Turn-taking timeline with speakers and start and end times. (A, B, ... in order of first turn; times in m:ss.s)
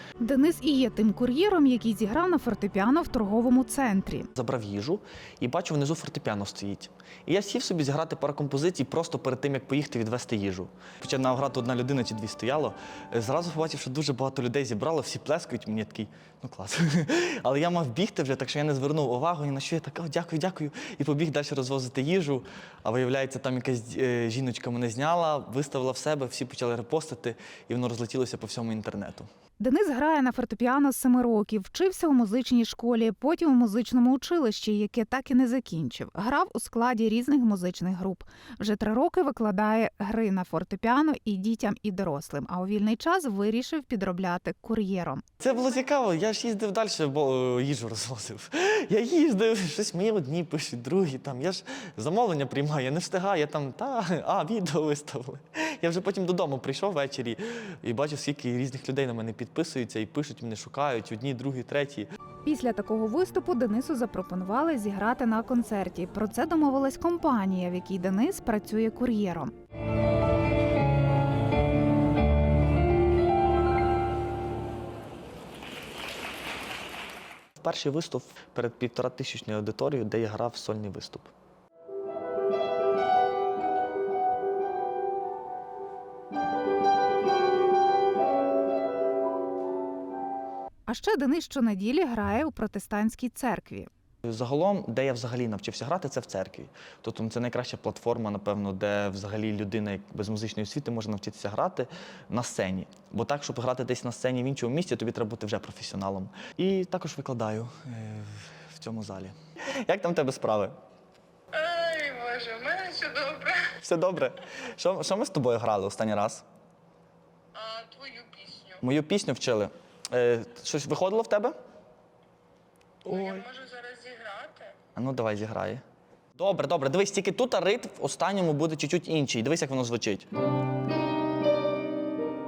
0:00.2-0:04.3 A
0:04.4-0:29.3 B
0:29.6-0:45.2 A
0:45.4-1:02.1 B
1:02.4-1:09.5 A
1:17.6-1:21.3 B
1:30.9-1:33.9 A
1:34.2-1:50.8 B
1:51.5-1:53.7 C
1:53.6-1:56.5 B
1:57.5-1:58.8 C
1:58.8-2:01.6 B
2:03.1-2:04.8 C
2:03.1-2:03.4 B
2:05.0-2:05.8 B
2:06.4-2:10.3 B